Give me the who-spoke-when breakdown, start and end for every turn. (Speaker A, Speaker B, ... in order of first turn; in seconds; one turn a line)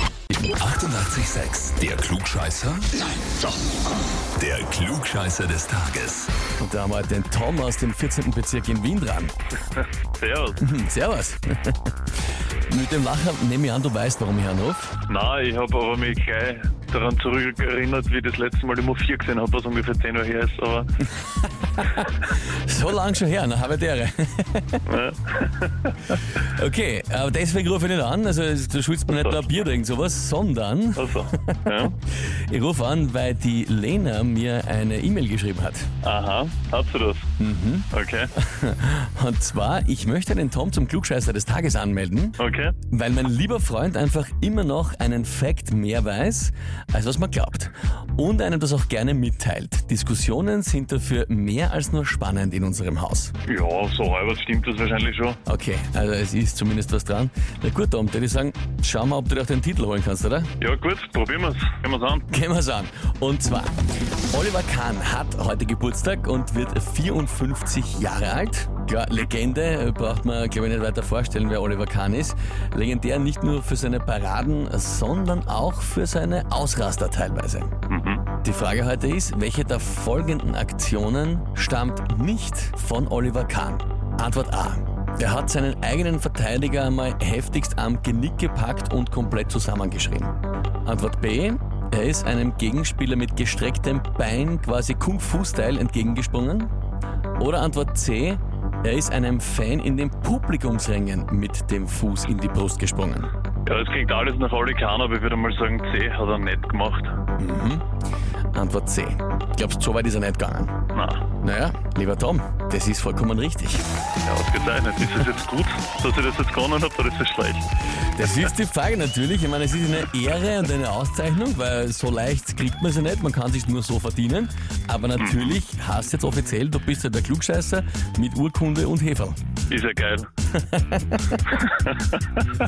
Speaker A: 0.6-2.9
Speaker A: 4.4-6.3
Speaker B: 6.6-9.3
Speaker C: 9.8-10.6
Speaker B: 10.6-11.8
Speaker B: 12.7-14.9
Speaker C: 15.1-20.9
Speaker B: 21.8-24.8
Speaker C: 24.9-26.0
Speaker B: 26.4-35.9
Speaker C: 29.1-29.4
Speaker C: 31.0-31.9
Speaker C: 36.0-37.3
Speaker B: 37.4-42.4
Speaker C: 37.9-38.3
Speaker C: 42.4-42.7
Speaker B: 42.9-53.3
Speaker C: 53.5-55.4
Speaker B: 55.5-60.5
Speaker C: 60.6-62.3
Speaker B: 62.3-63.8
Speaker B: 64.3-77.7
Speaker C: 77.9-78.2
Speaker B: 78.4-96.7
Speaker B: 97.4-103.3
Speaker C: 103.7-107.2
Speaker B: 107.4-107.8
Speaker B: 108.5-110.8
Speaker C: 110.9-111.2
Speaker B: 111.4-113.8
Speaker C: 114.3-117.7
Speaker B: 118.2-129.4
Speaker C: 125.2-125.6
Speaker C: 129.7-130.3
Speaker B: 130.5-131.6
Speaker C: 131.6-132.4